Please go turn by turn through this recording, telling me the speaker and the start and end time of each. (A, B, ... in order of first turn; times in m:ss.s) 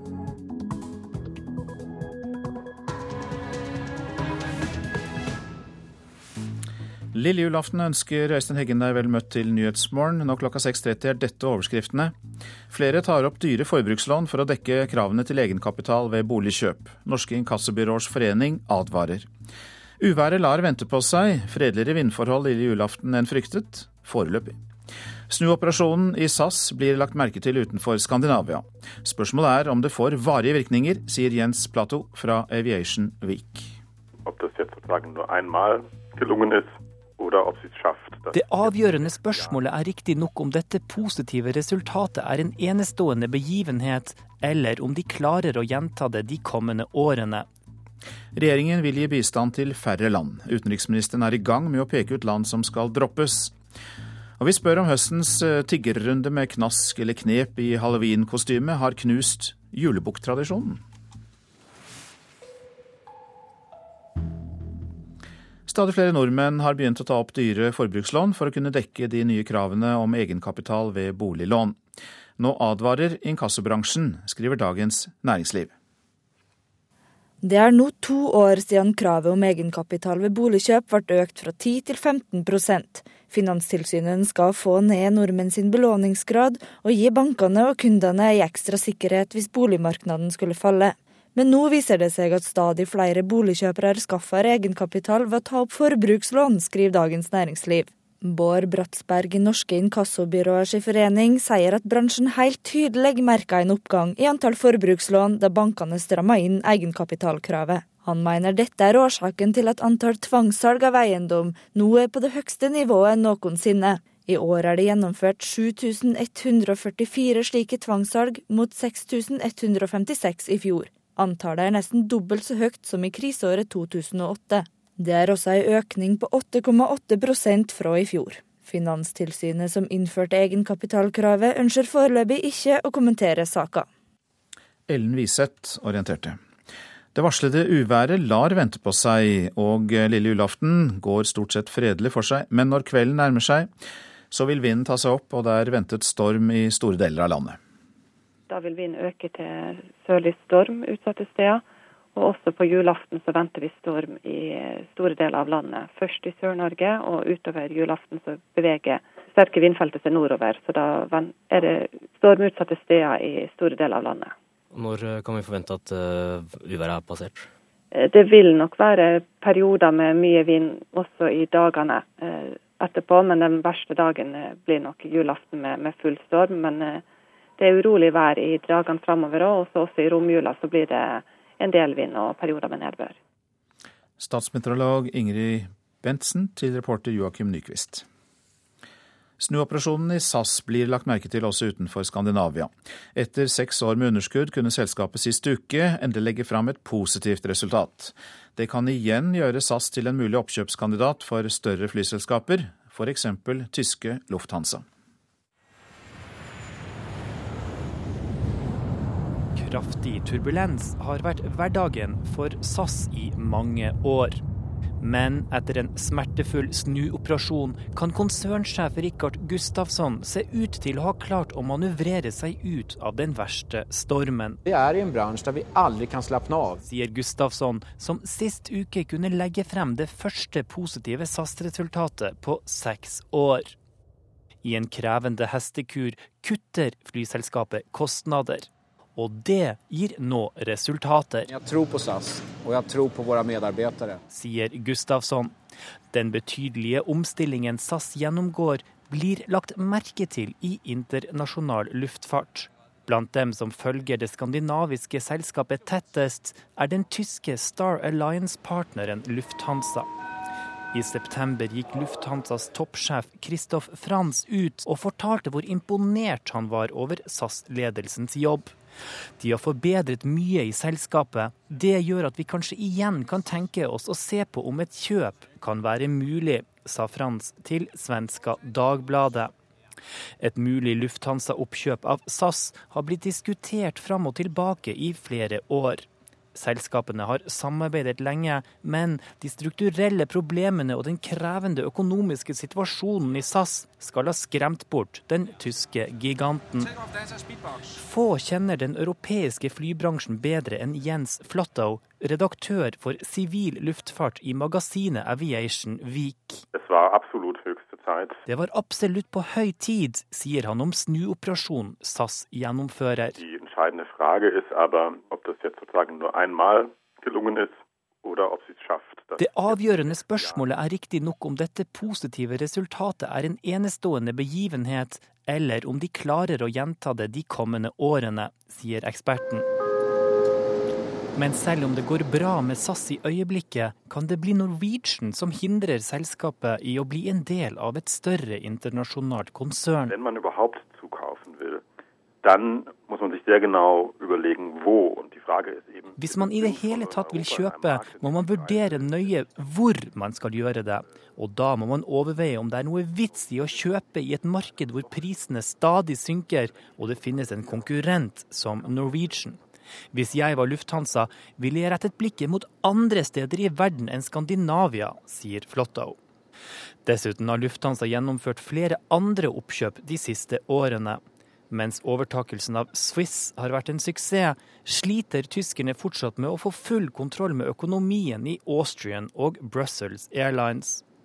0:07.1-0:12.1 A
0:12.7-0:19.3 A
0:20.0-0:24.5 A
0:25.3-0:33.8 A
0:34.3-0:39.6 B
0:38.3-0:47.5 C
0:48.4-0:53.5 A
0:54.4-1:00.8 A
1:05.7-1:11.8 A
1:12.4-1:15.7 A
1:17.4-2:13.9 D
2:14.9-2:16.4 A
2:17.2-2:23.7 A
2:24.3-2:27.6 A
2:28.5-2:31.6 E
2:32.2-2:44.3 E
2:44.7-2:47.5 F
2:47.9-2:57.0 E
2:57.6-3:03.2 E
3:04.2-3:08.0 A
3:09.4-3:24.8 A
3:29.6-3:34.4 C
3:35.0-3:44.6 C
3:44.7-3:46.8 G
3:46.8-3:53.8 C
3:54.6-4:01.5 C
4:01.5-4:04.2 G
4:04.3-4:05.5 C
4:06.1-4:20.1 C
4:20.9-4:28.7 C
4:29.4-4:39.5 C
4:40.4-4:56.9 C
4:57.9-5:06.6 C
5:06.7-5:08.4 B
5:08.5-5:13.4 C
5:13.4-5:20.7 B
5:19.4-5:29.7 C
5:31.4-5:40.2 C
5:40.1-5:41.8 B
5:42.4-5:49.4 B
5:46.2-5:59.6 C
6:00.1-6:06.2 C
6:07.0-6:21.0 C